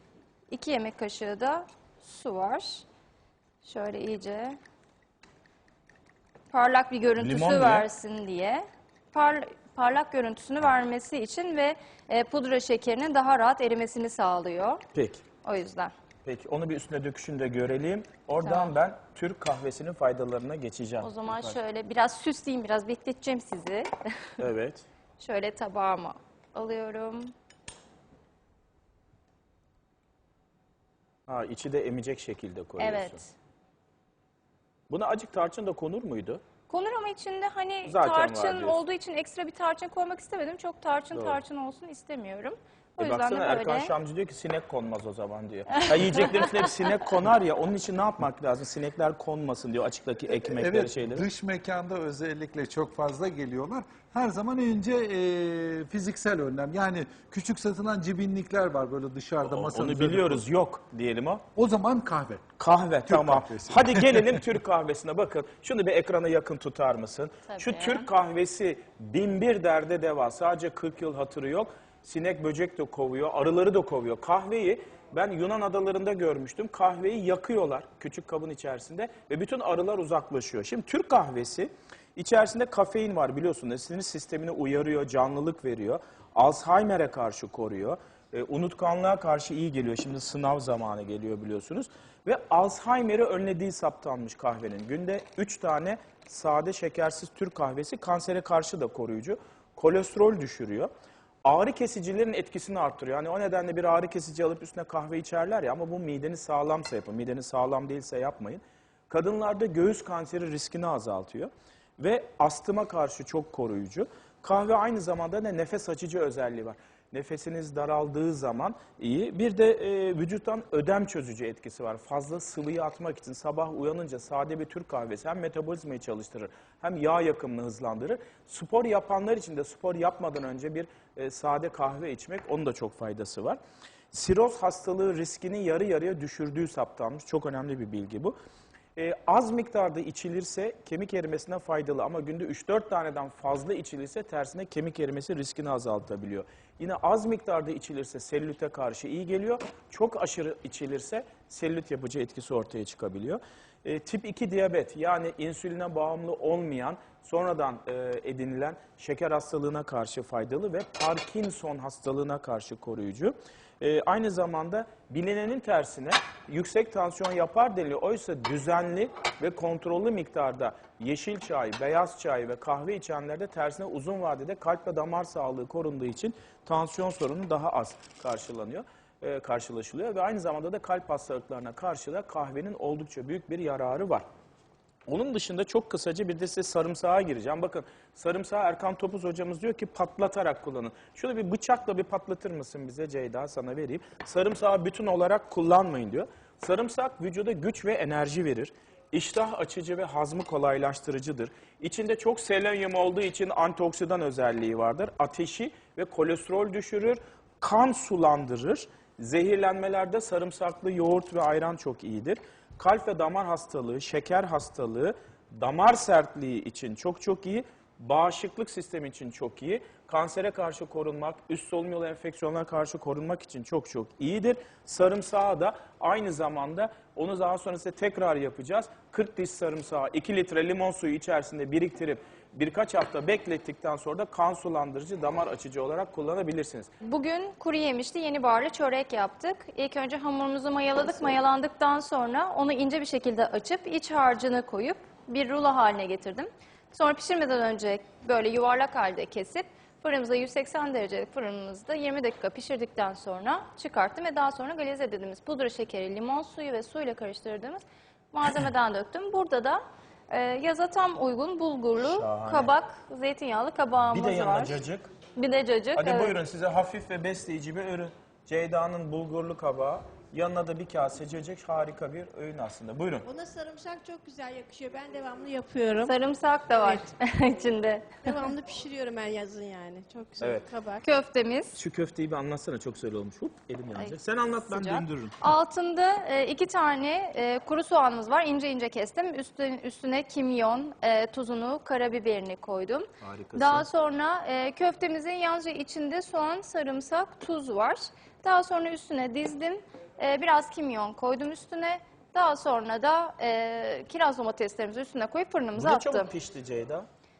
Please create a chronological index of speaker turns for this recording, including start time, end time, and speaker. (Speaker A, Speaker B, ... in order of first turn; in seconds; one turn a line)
Speaker A: 0.5-2.8
Speaker A: 3.6-4.6
Speaker A: 6.5-14.8
Speaker B: 7.2-7.9
Speaker B: 14.9-15.2
Speaker A: 15.4-15.9
Speaker B: 16.2-21.6
Speaker A: 18.4-18.7
Speaker A: 21.0-24.4
Speaker B: 24.4-24.9
Speaker A: 25.2-27.3
Speaker B: 31.3-33.2
Speaker A: 32.8-33.3
Speaker B: 34.9-36.4
Speaker A: 36.7-43.9
Speaker B: 37.8-38.8
Speaker B: 41.1-41.4
Speaker B: 43.0-51.3
Speaker C: 50.3-60.4
Speaker B: 59.4-61.4
Speaker C: 61.5-62.4
Speaker B: 62.6-100.9
Speaker C: 63.1-64.3
Speaker A: 67.5-68.1
Speaker B: 101.4-133.6
Speaker B: 134.1-138.3
Speaker B: 138.9-184.2
Speaker B: 185.1-236.9
Speaker A: 237.0-264.8
Speaker B: 262.0-262.7
Speaker B: 264.1-265.1
Speaker A: 265.4-266.3
Speaker B: 265.9-273.3
Speaker D: 273.2-276.1
Speaker A: 276.0-278.4
Speaker D: 276.8-277.0
Speaker D: 278.2-281.0
Speaker B: 280.4-280.7
Speaker A: 281.0-281.8
Speaker B: 281.7-285.5
Speaker A: 284.0-306.3
Speaker B: 293.2-293.9
Speaker B: 305.7-307.1